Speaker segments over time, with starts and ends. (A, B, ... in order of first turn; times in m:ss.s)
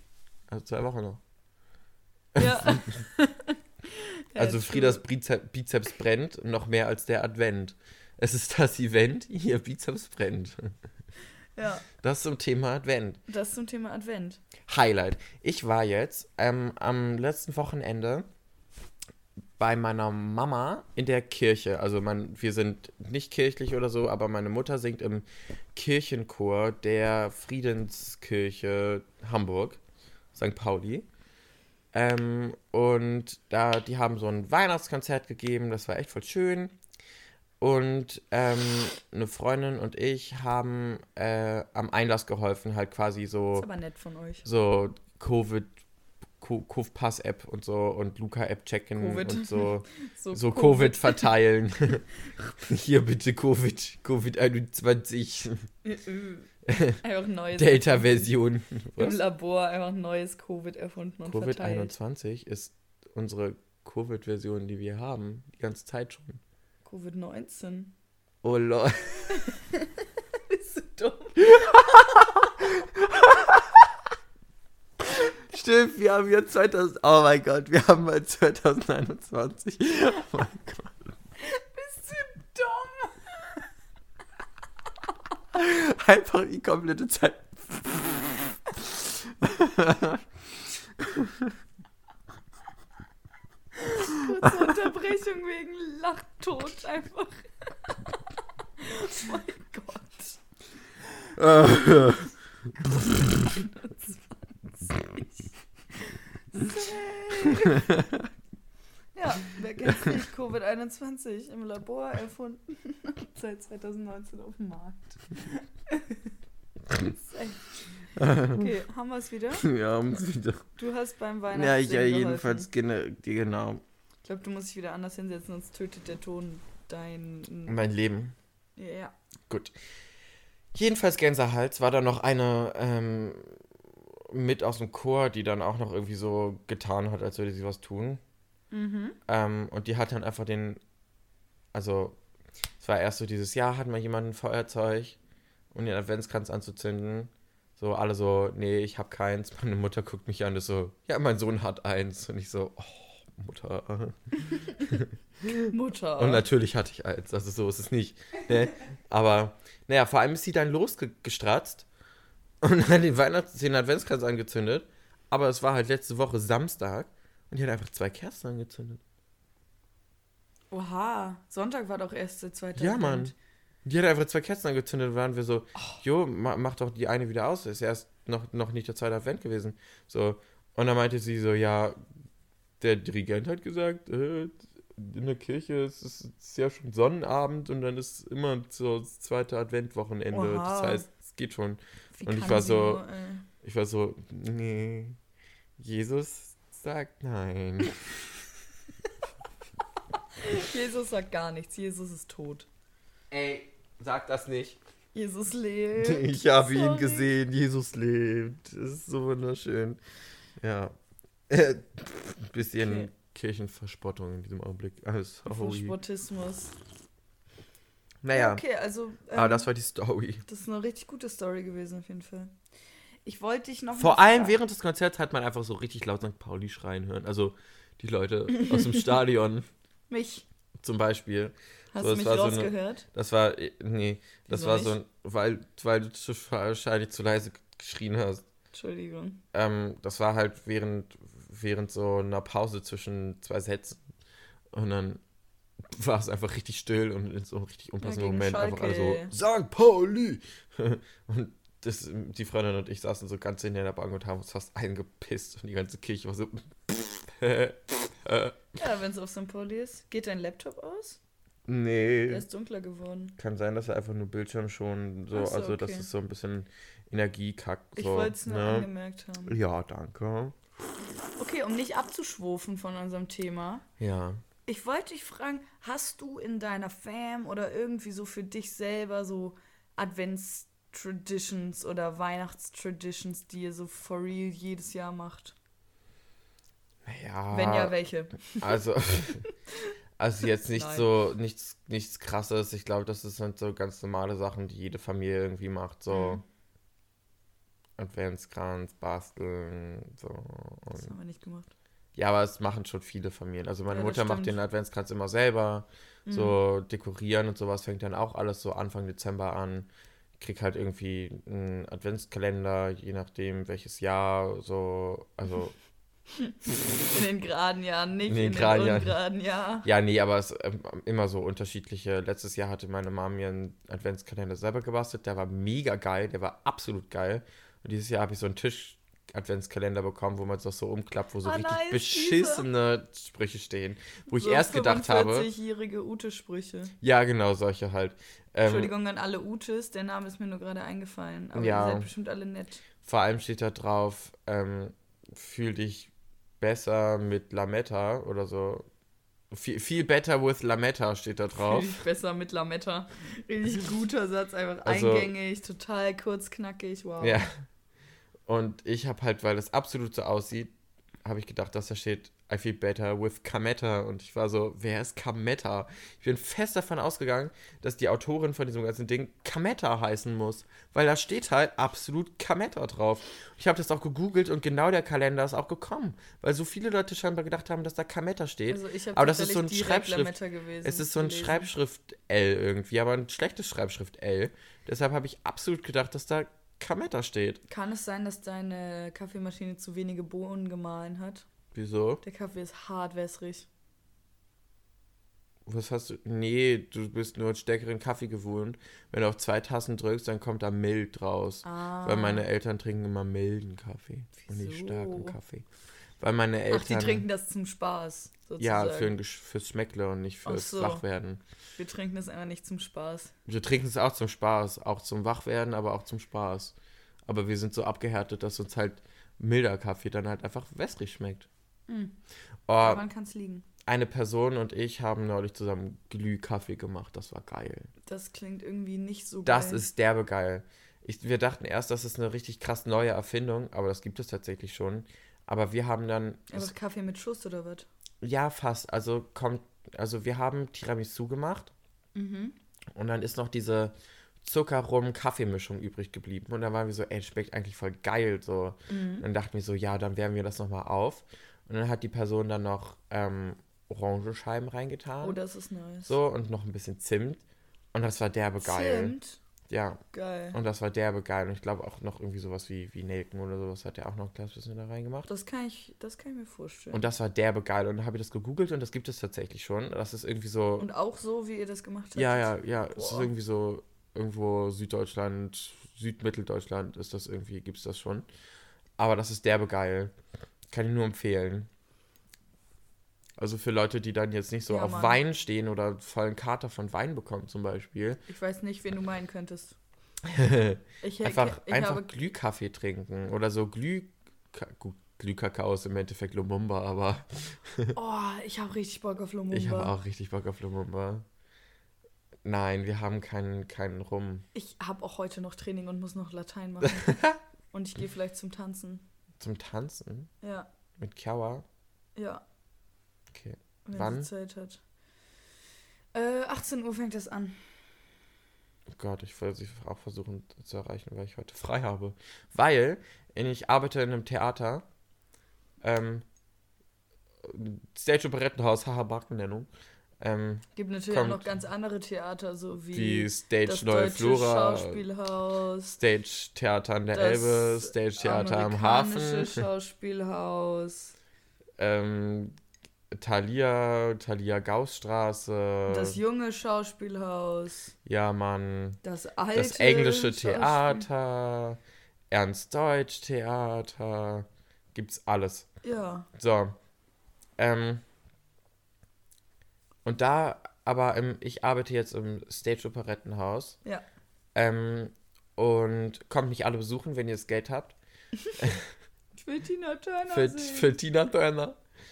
0:00.5-0:01.2 A
0:02.3-0:03.0 A
0:02.4-0:05.0 B
0:04.4-0:10.8 A
0:11.6-0:11.8 B
0:12.0-0:13.2 A
0:13.3-0:14.4 B
0:14.7-0:18.2 A
0:19.6-0:29.8 A
0:30.3-0:31.1 A
0:31.9-0:36.7 A
0:37.6-0:43.7 A
0:43.5-0:44.4 B
0:44.4-0:45.8 A
0:46.4-0:52.0 A
0:49.0-0:51.3 B
0:52.6-0:55.6 A
0:55.8-0:58.3 B
0:56.6-0:57.0 A
0:57.6-0:59.2 A
0:59.0-1:01.9 B
1:01.2-1:06.4 A
1:06.8-1:07.9 B
1:08.4-1:09.5 A
1:09.4-1:09.8 B
1:10.5-1:12.3 B
1:11.5-1:13.8 A
1:15.2-1:21.1 A
1:21.4-1:23.6 B
1:25.5-1:30.2 A
1:31.0-1:31.5 A
1:33.8-1:38.2 B
1:34.4-1:34.8 A
1:38.8-1:40.4 B
1:41.4-1:43.6 A
1:43.6-1:45.5 B
1:46.0-1:47.9 B
1:47.4-1:48.2 A
1:49.1-1:56.2 B
1:57.0-1:59.7 B
1:58.2-1:58.7 A
1:59.6-2:00.7 A
2:00.8-2:02.7 B
2:01.5-2:03.8 A
2:04.2-2:07.8 B
2:07.6-2:08.3 A
2:08.8-2:09.1 B
2:09.5-2:09.8 A
2:10.7-2:18.2 A
2:18.7-2:19.2 B
2:19.3-2:20.8 A
2:21.7-2:22.2 A
2:22.8-2:25.2 A
2:25.7-2:34.2 A
2:34.8-2:41.9 A
2:35.7-2:36.4 B
2:42.6-2:49.0 A
2:50.7-2:53.3 B
2:52.8-2:53.3 A
2:53.8-3:02.0 A
3:02.8-3:13.0 A
3:10.3-3:11.0 B
3:12.2-3:13.4 B
3:13.6-3:15.2 A
3:15.8-3:17.9 A
3:20.4-3:22.7 B
3:23.3-3:24.8 A
3:25.1-3:27.3 B
3:26.0-3:30.0 A
3:30.6-3:30.9 A
3:31.5-3:36.0 A
3:32.8-3:33.1 B
3:35.5-3:36.7 B
3:38.2-3:38.6 A
3:38.3-3:39.7 B
3:39.3-3:40.4 A
3:40.5-3:42.5 B
3:43.2-3:44.6 B
3:44.0-3:49.7 A
3:50.1-3:50.4 B
3:50.8-3:58.4 A
3:51.9-3:53.0 B
3:54.5-3:54.9 B
3:58.7-3:59.4 B
3:59.5-4:04.0 A
4:04.7-4:05.2 A
4:05.8-4:18.6 A
4:08.0-4:09.3 B
4:18.8-4:21.2 B
4:21.7-4:22.4 A
4:22.3-4:23.3 B
4:23.4-4:28.9 A
4:25.3-4:26.1 B
4:28.0-4:29.6 B
4:29.4-4:30.6 A
4:31.4-4:33.8 B
4:34.0-4:34.4 A
4:34.6-4:45.5 B
4:47.0-4:47.9 A
4:47.5-4:48.8 B
4:48.6-4:49.4 A
4:50.2-4:56.4 A
4:50.7-4:51.1 B
4:56.1-4:56.4 B
4:58.0-5:01.1 A
5:00.9-5:01.7 B
5:02.1-5:09.9 A
5:03.9-5:04.6 B
5:06.2-5:06.6 B
5:10.4-5:15.8 A
5:17.1-5:19.9 B
5:18.3-5:19.2 A
5:19.8-5:35.5 A
5:31.4-5:32.7 B
5:34.3-5:36.9 B
5:37.0-5:38.9 A
5:38.6-5:42.8 B
5:41.5-5:42.1 A
5:43.0-5:48.9 A
5:49.5-5:52.0 A
5:51.5-5:57.4 B
5:54.8-5:55.3 A
5:57.2-5:57.6 A
5:58.4-6:27.6 A
6:18.7-6:21.7 B
6:27.7-6:31.4 B
6:31.7-6:32.2 A
6:32.2-6:33.7 B
6:35.6-6:45.6 A
6:41.6-6:42.4 B
6:44.4-6:45.4 B
6:46.2-6:47.2 A
6:46.7-6:49.2 B
6:48.6-6:51.4 A
6:50.4-6:51.0 B
6:51.8-6:53.3 B
6:53.4-6:56.7 A
6:57.2-7:01.5 A
7:01.9-7:02.1 B
7:02.7-7:03.0 A
7:02.8-7:03.6 B
7:03.8-7:07.9 A
7:08.1-7:09.8 B
7:09.4-7:16.7 A
7:16.5-7:17.9 B
7:18.2-7:21.7 A
7:22.1-7:22.6 B
7:22.9-7:35.4 A
7:28.9-7:29.2 B
7:35.2-7:36.1 B
7:36.0-7:37.4 A
7:37.9-7:39.1 A
7:38.6-7:39.4 B
7:39.7-7:40.0 A
7:40.1-7:40.6 B
7:40.5-7:45.3 A
7:45.3-7:47.0 B
7:46.9-7:50.9 A
7:50.8-7:53.3 B
7:52.1-7:58.2 A
7:59.0-8:00.1 A
8:00.7-8:01.7 A
8:03.4-8:08.2 A
8:04.7-8:05.2 B
8:08.3-8:09.8 B
8:10.2-8:17.9 A
8:11.0-8:12.1 B
8:17.9-8:19.9 B
8:19.5-8:21.2 A
8:22.4-8:24.5 A
8:24.5-8:29.0 B
8:26.8-8:27.4 A
8:29.4-8:30.3 A
8:30.4-8:30.7 B
8:31.0-8:31.6 A
8:32.2-8:32.4 B
8:33.3-8:34.3 A
8:33.8-8:34.8 B
8:36.1-8:37.7 B
8:38.9-8:44.8 A
8:45.8-8:46.2 A
8:47.4-8:49.7 A
8:50.2-8:51.5 A
8:50.8-8:56.0 B
8:52.9-8:55.0 A
8:56.0-8:59.6 A
8:57.1-9:01.1 B
9:01.8-9:02.6 A
9:03.1-9:06.2 A
9:05.9-9:07.9 B
9:08.0-9:09.0 A
9:09.0-9:11.0 B
9:09.5-9:11.8 A
9:12.3-9:15.7 A
9:15.8-9:16.3 B
9:16.3-9:16.8 A
9:17.6-9:18.0 A
9:20.0-9:23.8 A
9:24.5-9:28.0 A
9:28.6-9:28.9 A
9:29.4-9:30.9 B
9:30.3-9:31.8 A